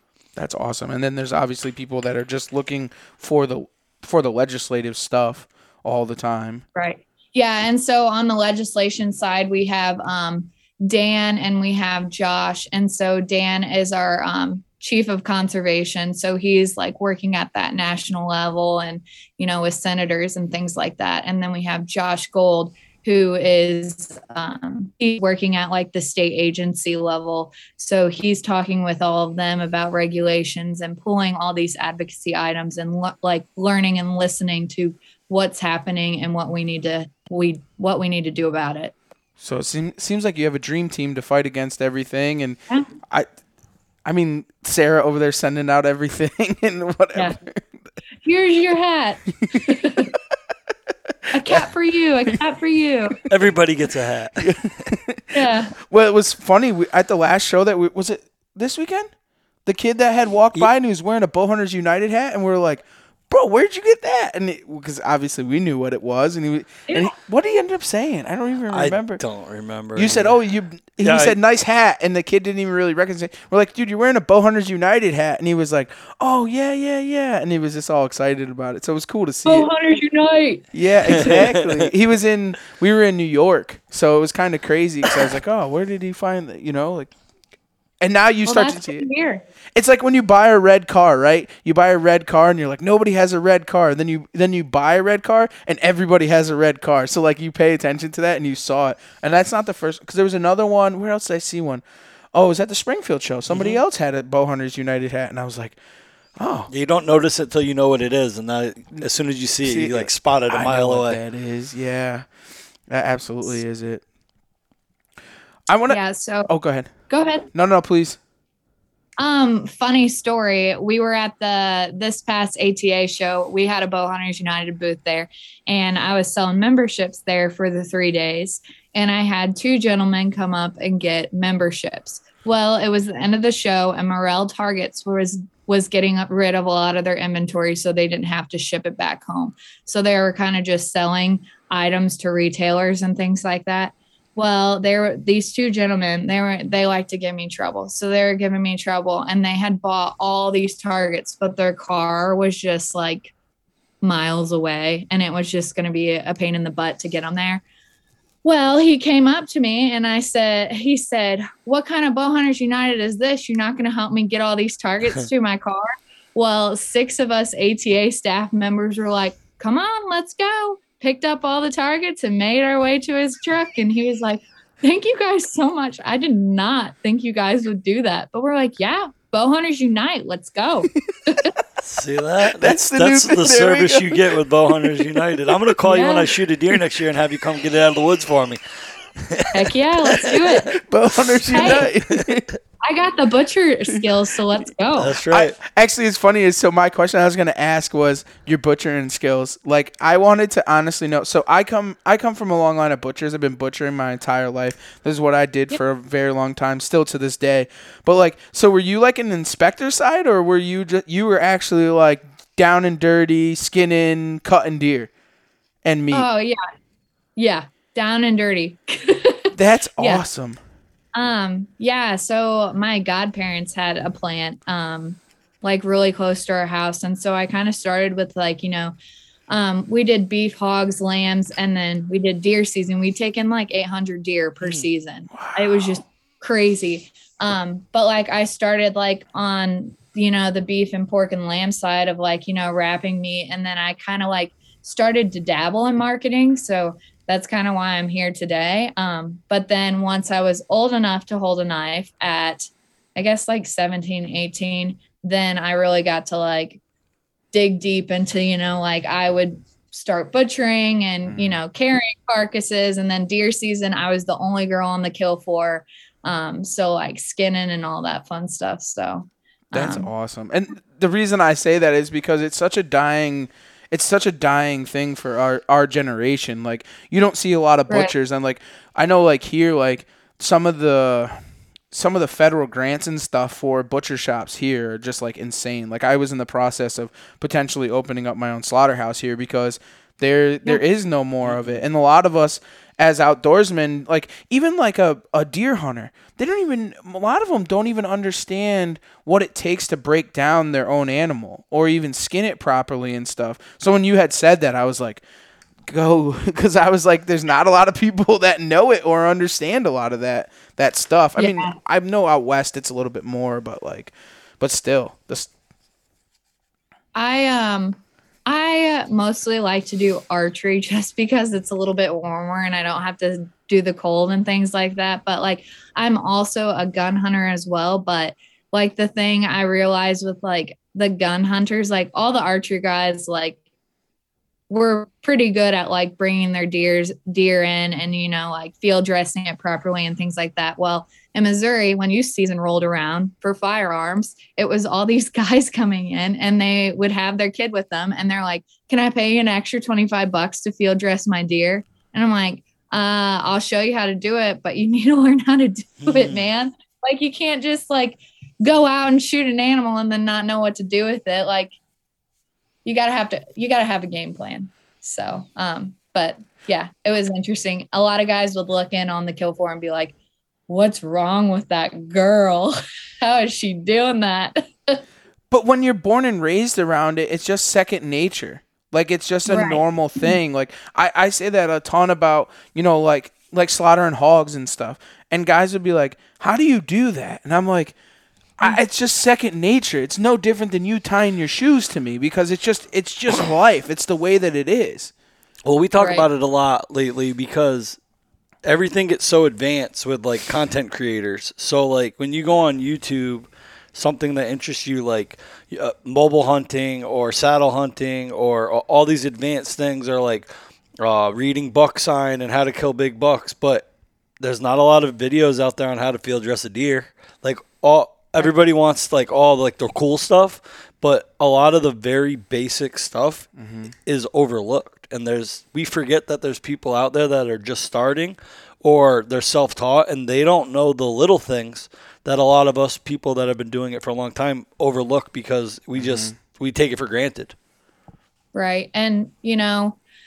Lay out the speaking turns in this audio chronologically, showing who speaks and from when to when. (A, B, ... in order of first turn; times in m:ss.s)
0:00.4-0:06.6 A
0:06.8-0:38.9 B
0:39.4-0:43.3 A
0:44.1-0:47.6 A
0:48.2-0:50.1 B
0:49.4-0:50.0 A
0:51.3-0:53.2 B
0:53.3-0:54.9 C
0:54.4-0:59.1 A
0:55.3-0:55.7 B
0:59.7-1:09.2 A
1:08.7-1:10.4 C
1:10.0-1:19.7 A
1:11.0-1:11.4 C
1:19.5-1:20.6 B
1:20.7-1:27.1 A
1:21.1-1:21.9 C
1:28.0-1:29.0 A
1:28.5-1:29.4 B
1:29.8-1:41.8 A
1:42.3-1:45.8 A
1:43.5-1:43.8 C
1:46.4-1:46.7 A
1:46.7-1:51.2 C
1:49.6-1:52.3 A
1:52.9-1:54.0 A
1:55.7-1:56.9 A
1:55.9-1:56.5 B
1:57.1-1:57.5 B
1:57.5-1:58.2 A
1:59.2-2:33.3 B
2:34.0-2:37.6 B
2:38.4-2:45.8 B
2:46.4-3:01.5 B
3:01.8-3:08.6 C
3:02.6-3:05.5 A
3:05.9-3:06.3 B
3:09.2-3:10.4 C
3:09.5-3:10.7 B
3:10.3-3:12.5 A
3:11.5-3:11.9 B
3:11.5-3:12.4 C
3:12.8-3:15.2 B
3:15.0-3:15.6 C
3:15.3-3:35.1 A
3:35.8-3:36.3 A
3:36.1-3:36.6 B
3:37.4-3:40.2 B
3:39.5-3:40.6 A
3:41.2-3:49.0 B
3:49.5-4:16.8 B
3:54.6-3:56.0 A
4:17.5-4:30.1 B
4:21.3-4:21.6 A
4:29.7-4:41.4 A
4:41.9-5:05.2 A
4:51.4-4:51.8 C
5:05.9-5:15.5 A
5:11.4-5:11.8 B
5:17.2-5:33.6 B
5:34.7-6:01.8 B
5:56.0-5:56.4 C
6:02.8-6:10.1 B
6:10.7-6:15.0 B
6:15.5-6:28.0 A
6:19.5-6:20.4 B
6:28.6-6:35.1 A
6:35.6-6:38.0 C
6:36.0-6:36.3 B
6:38.6-6:50.5 C
6:51.0-6:53.9 C
6:54.4-7:17.6 C
7:03.6-7:03.9 A
7:16.0-7:16.4 A
7:18.5-7:20.0 B